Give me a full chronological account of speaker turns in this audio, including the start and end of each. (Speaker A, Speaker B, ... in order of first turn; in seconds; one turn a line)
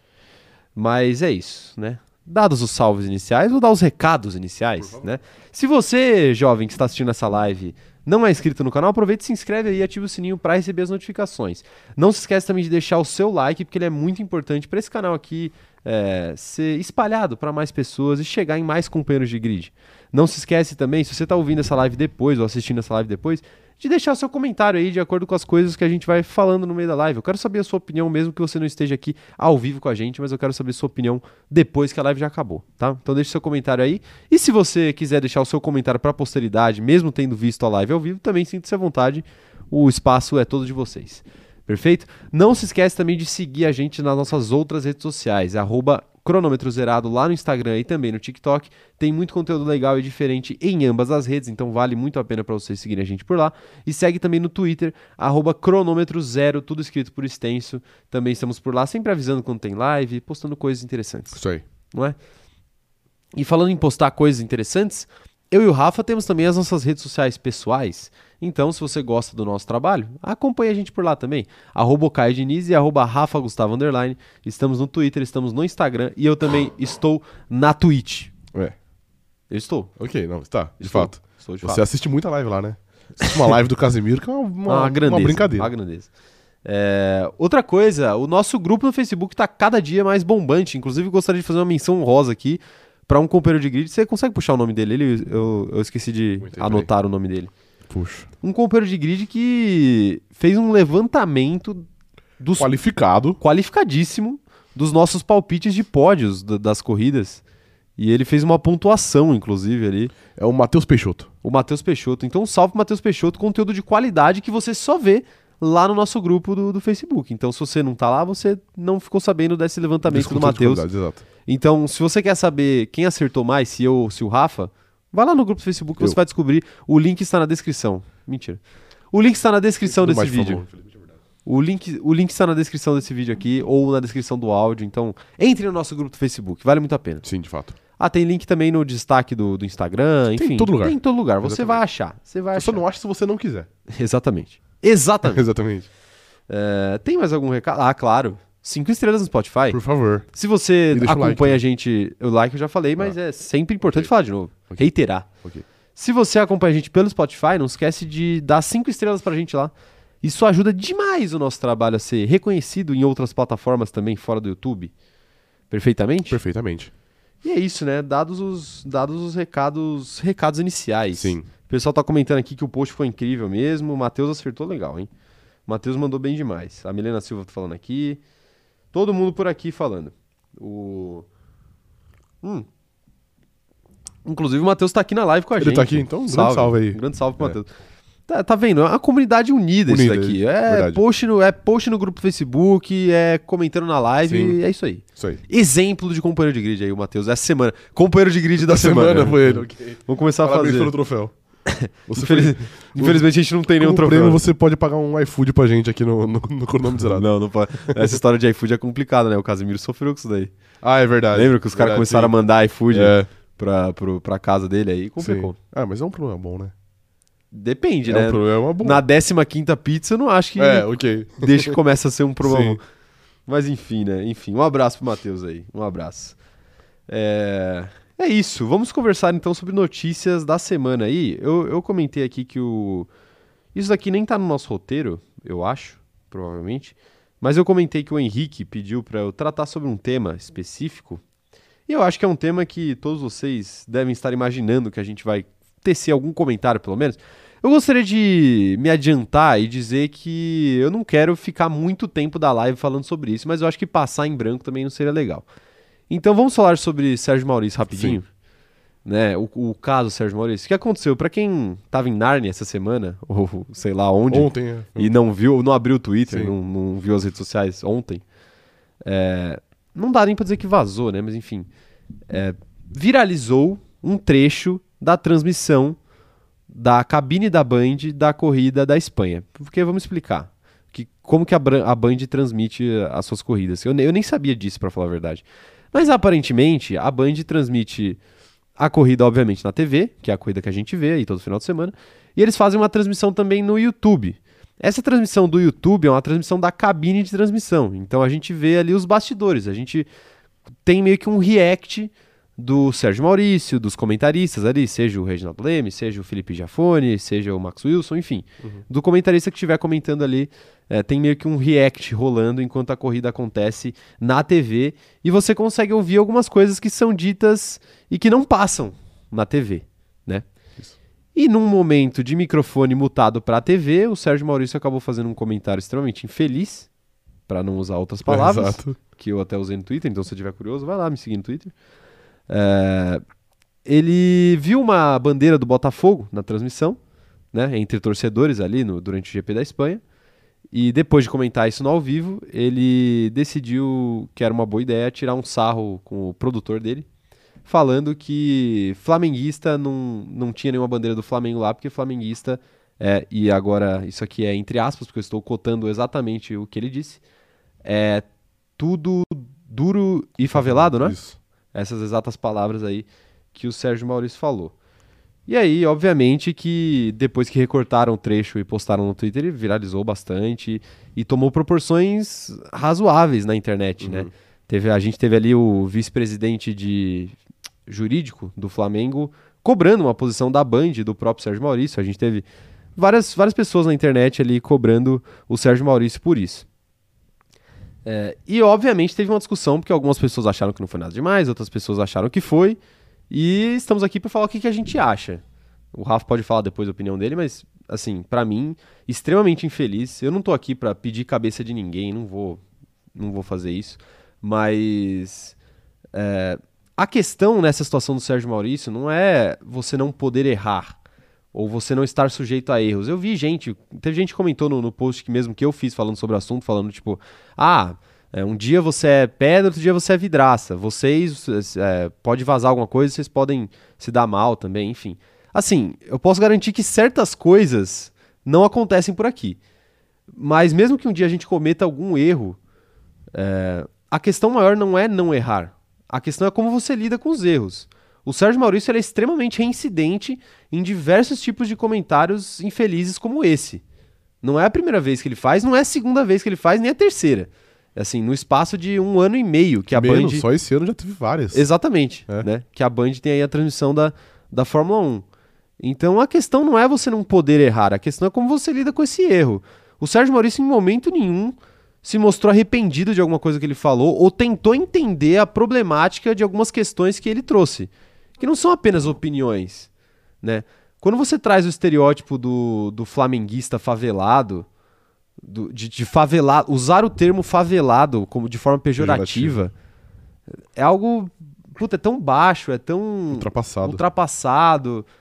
Speaker A: 0.8-62.1
Speaker B: 4.8-5.1
Speaker B: 61.3-61.6
Speaker A: 63.3-78.3
Speaker A: 79.5-79.9
Speaker B: 80.0-85.7
Speaker A: 80.8-81.8
Speaker A: 83.2-83.5
Speaker A: 84.7-86.1
Speaker A: 86.6-97.5
Speaker B: 96.4-96.9
Speaker B: 97.9-98.3
Speaker A: 98.4-101.8
Speaker A: 102.4-102.7
Speaker B: 102.6-103.4
Speaker A: 103.4-107.4
Speaker A: 108.0-110.1
Speaker B: 110.3-111.3
Speaker A: 111.4-120.8
Speaker B: 120.0-121.2
Speaker A: 121.5-128.6
Speaker A: 129.1-130.6
Speaker B: 129.8-131.1
Speaker A: 131.4-137.2
Speaker B: 137.2-137.8
Speaker A: 138.0-142.8
Speaker B: 140.3-141.8
Speaker B: 142.6-143.7
Speaker A: 143.9-145.4
Speaker B: 145.2-145.9
Speaker A: 146.5-149.8
Speaker B: 149.7-150.2
Speaker A: 150.3-155.3
Speaker B: 150.9-151.6
Speaker A: 155.9-164.9
Speaker A: 165.7-166.4
Speaker B: 166.3-166.9
Speaker A: 167.4-175.1
Speaker B: 171.1-171.5
Speaker A: 175.7-178.2
Speaker A: 178.9-181.2
Speaker A: 184.2-187.7
Speaker B: 185.6-187.6
Speaker A: 188.3-200.9
Speaker B: 189.9-191.0
Speaker B: 194.2-194.6
Speaker B: 198.6-201.3
Speaker A: 201.7-204.4
Speaker B: 202.1-207.2
Speaker A: 207.1-210.5
Speaker B: 210.8-212.3
Speaker A: 211.3-215.6
Speaker B: 212.9-213.3
Speaker B: 215.2-216.7
Speaker A: 217.5-222.8
Speaker B: 218.0-219.0
Speaker B: 220.6-221.8
Speaker B: 222.4-222.8
Speaker A: 223.5-226.4
Speaker A: 227.1-233.1
Speaker A: 233.7-241.2
Speaker A: 241.9-255.4
Speaker A: 256.1-258.2
Speaker B: 257.9-258.2
Speaker A: 259.0-268.2
Speaker B: 264.3-265.1
Speaker B: 266.3-266.5
Speaker A: 269.0-271.7
Speaker A: 272.3-276.0
Speaker A: 276.7-288.2
Speaker A: 288.8-300.1
Speaker A: 300.9-320.4
Speaker A: 321.3-326.9
Speaker A: 327.5-331.7
Speaker B: 328.2-329.0
Speaker A: 332.5-333.2
Speaker A: 333.8-337.0
Speaker A: 337.5-340.0
Speaker A: 340.7-347.1
Speaker A: 347.6-357.2
Speaker A: 357.8-358.2
Speaker A: 358.8-361.2
Speaker B: 360.5-361.4
Speaker A: 361.7-364.7
Speaker A: 365.5-377.4
Speaker B: 374.0-374.3
Speaker A: 377.9-382.4
Speaker A: 383.0-386.6
Speaker A: 388.0-392.8
Speaker A: 393.3-395.4
Speaker A: 395.9-402.6
Speaker A: 403.1-405.6
Speaker A: 406.1-411.0
Speaker A: 411.5-429.6
Speaker A: 430.3-432.6
Speaker A: 433.3-443.8
Speaker A: 444.4-450.4
Speaker B: 449.9-451.7
Speaker A: 451.5-455.2
Speaker A: 455.8-469.9
Speaker A: 470.4-474.7
Speaker A: 475.4-479.7
Speaker B: 479.0-479.6
Speaker A: 480.8-485.1
Speaker B: 483.3-484.0